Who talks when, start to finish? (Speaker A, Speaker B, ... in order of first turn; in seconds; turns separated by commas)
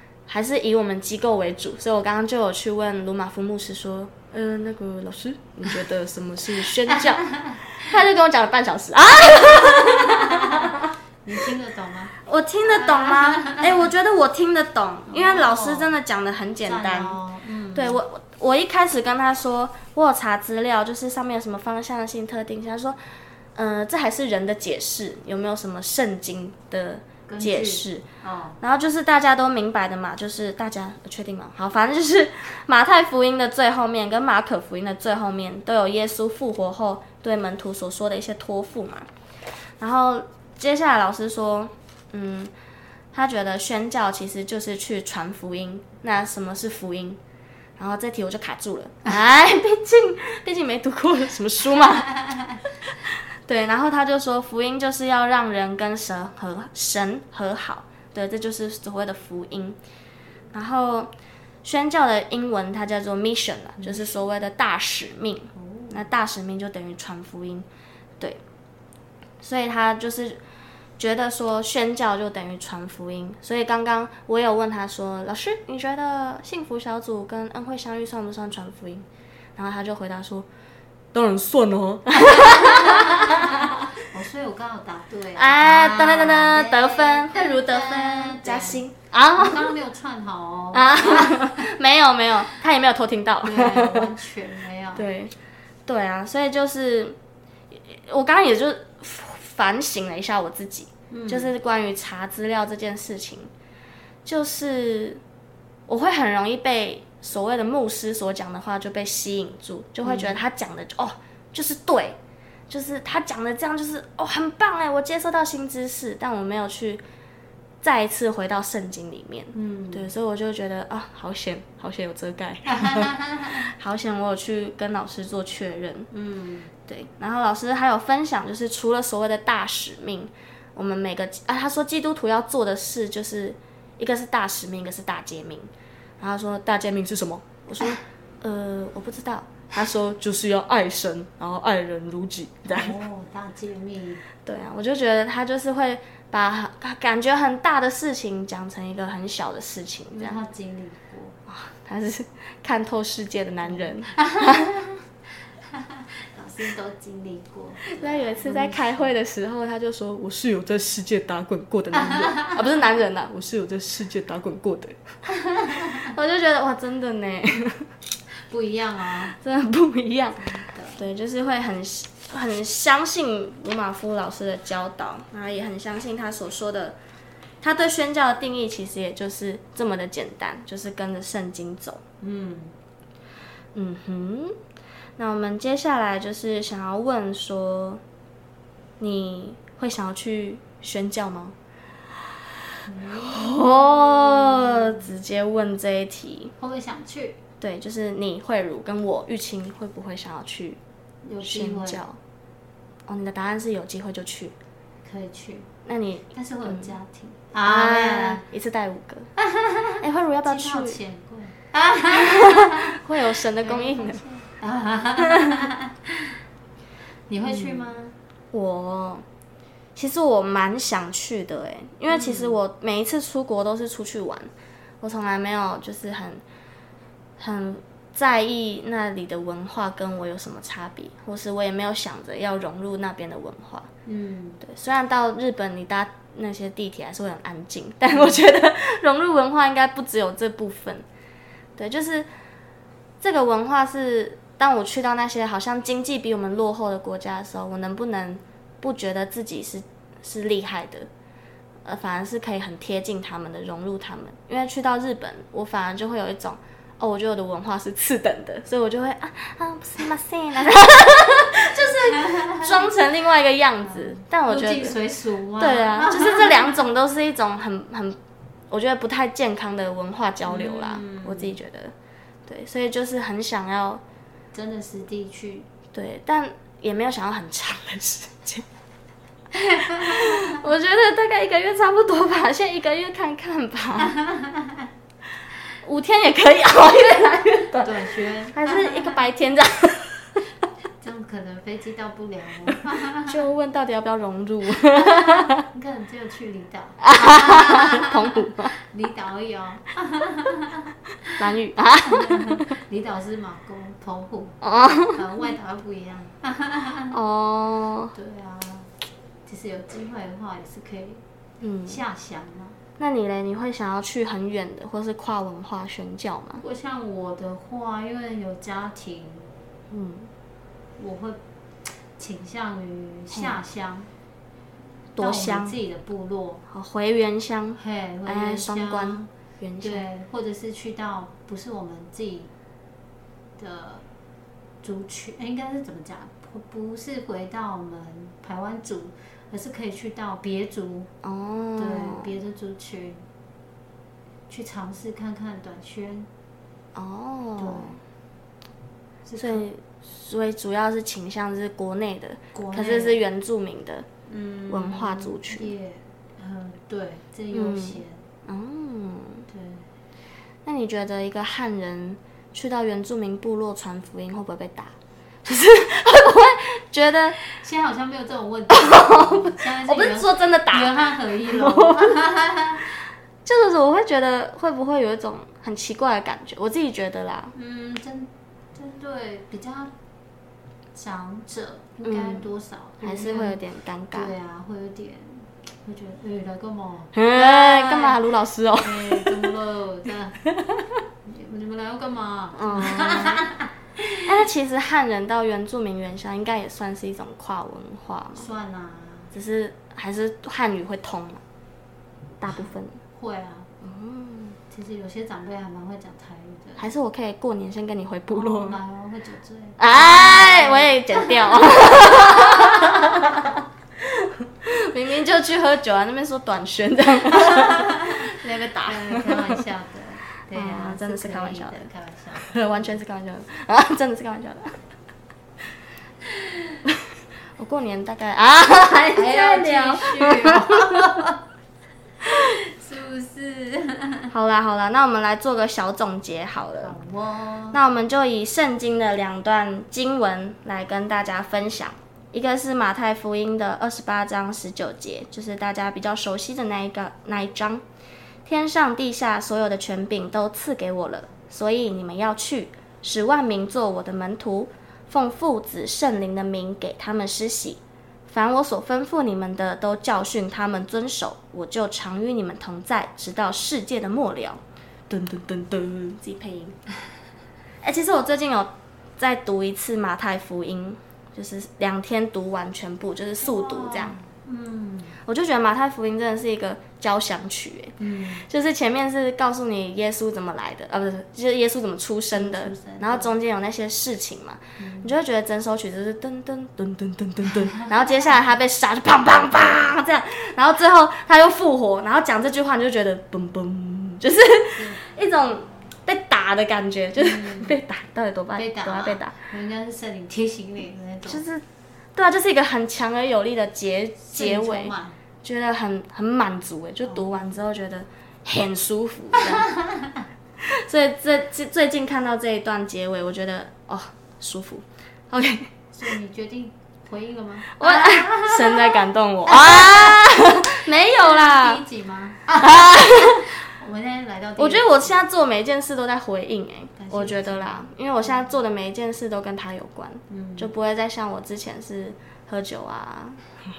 Speaker A: 0.3-10.9, Speaker B: 7.2-7.6, Speaker B: 9.9-13.8, Speaker A: 12.2-17.2, Speaker B: 15.1-15.9, Speaker B: 16.6-18.0, Speaker A: 17.7-23.0, Speaker A: 23.5-28.0, Speaker B: 27.3-28.6, Speaker A: 28.6-39.1, Speaker A: 39.8-42.5, Speaker A: 43.1-47.2, Speaker A: 47.8-52.4, Speaker A: 53.4-59.8, Speaker A: 60.5-61.1, Speaker A: 61.6-67.7, Speaker B: 63.8-64.1, Speaker B: 65.5-66.0, Speaker A: 69.4-70.4, Speaker A: 71.0-80.5, Speaker A: 81.1-83.8, Speaker B: 82.5-88.8, Speaker A: 85.3-89.7, Speaker B: 89.3-91.7, Speaker A: 90.7-94.1, Speaker B: 93.4-95.0, Speaker A: 94.9-95.3, Speaker A: 95.8-97.2, Speaker A: 97.7-103.5, Speaker B: 101.1-101.5, Speaker A: 104.2-105.2, Speaker A: 105.9-112.2, Speaker B: 110.0-110.4, Speaker A: 112.7-117.0, Speaker A: 117.8-126.1, Speaker B: 119.5-120.1, Speaker B: 122.7-123.6, Speaker B: 126.1-126.7, Speaker A: 126.8-143.0, Speaker B: 142.7-144.2, Speaker A: 144.4-150.4, Speaker B: 150.1-151.3, Speaker A: 151.5-154.8, Speaker B: 153.6-154.5, Speaker B: 155.7-159.1, Speaker A: 157.9-165.0, Speaker B: 161.9-162.6, Speaker B: 165.3-166.1, Speaker A: 165.9-167.9, Speaker B: 168.5-169.3, Speaker A: 169.3-177.0, Speaker B: 170.4-171.0, Speaker A: 177.6-182.0, Speaker B: 182.2-182.7, Speaker A: 183.7-184.6, Speaker A: 185.2-188.0, Speaker A: 189.0-191.5, Speaker B: 192.8-195.1, Speaker A: 193.3-196.5, Speaker B: 196.6-197.4, Speaker A: 197.6-200.8, Speaker B: 201.2-202.0, Speaker A: 201.4-202.2, Speaker A: 203.1-204.5, Speaker B: 205.0-205.7, Speaker A: 205.8-206.9, Speaker B: 206.3-208.4, Speaker A: 207.6-209.3, Speaker B: 209.4-212.9, Speaker A: 210.0-211.0, Speaker A: 212.1-214.2, Speaker B: 213.6-216.3, Speaker B: 217.3-218.1, Speaker A: 217.5-217.9, Speaker A: 218.5-219.2, Speaker A: 219.9-226.4, Speaker B: 222.1-222.6, Speaker A: 227.4-233.9, Speaker B: 234.1-234.6, Speaker A: 234.6-241.0, Speaker A: 241.8-242.3, Speaker A: 243.2-251.1, Speaker A: 251.8-265.0, Speaker B: 262.2-262.7, Speaker B: 264.0-266.8, Speaker A: 265.6-268.2, Speaker A: 268.7-271.9, Speaker B: 270.5-271.6, Speaker A: 272.4-274.0, Speaker B: 274.5-275.6, Speaker A: 275.9-278.6, Speaker B: 279.6-280.4, Speaker A: 279.8-284.2, Speaker A: 285.8-288.0, Speaker B: 287.7-289.1, Speaker A: 288.5-290.4, Speaker B: 291.0-293.4, Speaker A: 293.2-295.6, Speaker B: 295.2-301.4, Speaker A: 297.0-298.7, Speaker A: 301.4-302.6, Speaker B: 302.1-307.1, Speaker A: 304.6-305.2, Speaker A: 307.1-308.1, Speaker B: 308.1-308.9, Speaker B: 309.4-311.2, Speaker A: 311.6-312.0, Speaker B: 311.8-312.8, Speaker A: 313.0-316.6, Speaker B: 316.6-319.5, Speaker A: 319.9-320.3, Speaker B: 321.0-321.4, Speaker B: 321.9-324.1, Speaker A: 325.1-325.8, Speaker B: 325.2-326.6, Speaker A: 326.7-330.0, Speaker B: 327.8-329.3, Speaker B: 329.8-332.5, Speaker B: 333.6-334.0, Speaker B: 334.8-341.1, Speaker A: 341.2-342.3, Speaker B: 341.8-343.2, Speaker B: 344.5-346.3, Speaker A: 346.9-348.0, Speaker B: 347.6-348.0, Speaker B: 349.2-349.6, Speaker A: 349.4-354.1, Speaker B: 352.5-353.2, Speaker B: 354.3-358.2, Speaker A: 354.7-355.7, Speaker A: 357.5-359.4, Speaker B: 359.5-359.9, Speaker A: 360.6-367.4, Speaker B: 367.4-372.9, Speaker A: 368.7-372.1, Speaker A: 373.4-377.5, Speaker B: 377.5-379.9, Speaker B: 380.9-383.6, Speaker A: 382.1-382.4, Speaker A: 383.0-384.3, Speaker B: 384.1-388.2, Speaker A: 387.1-389.4, Speaker B: 388.8-390.4, Speaker A: 390.5-390.9, Speaker B: 391.2-394.3, Speaker A: 392.5-393.4, Speaker A: 394.2-398.5, Speaker B: 398.3-399.3, Speaker A: 399.3-401.4, Speaker A: 402.4-403.0, Speaker B: 402.5-403.7, Speaker A: 403.8-404.6, Speaker B: 404.7-406.9, Speaker A: 406.8-408.8, Speaker B: 408.3-413.6, Speaker A: 409.8-419.5, Speaker B: 417.4-418.2, Speaker B: 418.8-423.0, Speaker A: 420.5-421.9, Speaker A: 422.4-424.8, Speaker A: 427.6-431.1, Speaker B: 429.1-431.4, Speaker B: 432.2-434.3, Speaker A: 434.3-436.9, Speaker B: 436.8-437.8, Speaker A: 437.7-447.8, Speaker A: 448.4-466.8, Speaker A: 467.8-474.2, Speaker B: 473.4-475.2, Speaker A: 475.2-499.3, Speaker B: 478.0-478.4, Speaker B: 482.3-483.3, Speaker B: 484.8-485.1, Speaker B: 494.8-495.0, Speaker B: 497.1-497.8, Speaker B: 498.5-501.4, Speaker A: 501.2-501.6, Speaker A: 502.1-509.7, Speaker B: 504.3-505.2, Speaker B: 507.1-507.6, Speaker B: 509.7-510.2, Speaker A: 510.6-515.7, Speaker B: 515.9-525.1, Speaker A: 517.8-521.8, Speaker A: 522.6-523.5, Speaker A: 524.6-533.4, Speaker B: 527.0-527.9, Speaker B: 530.3-530.7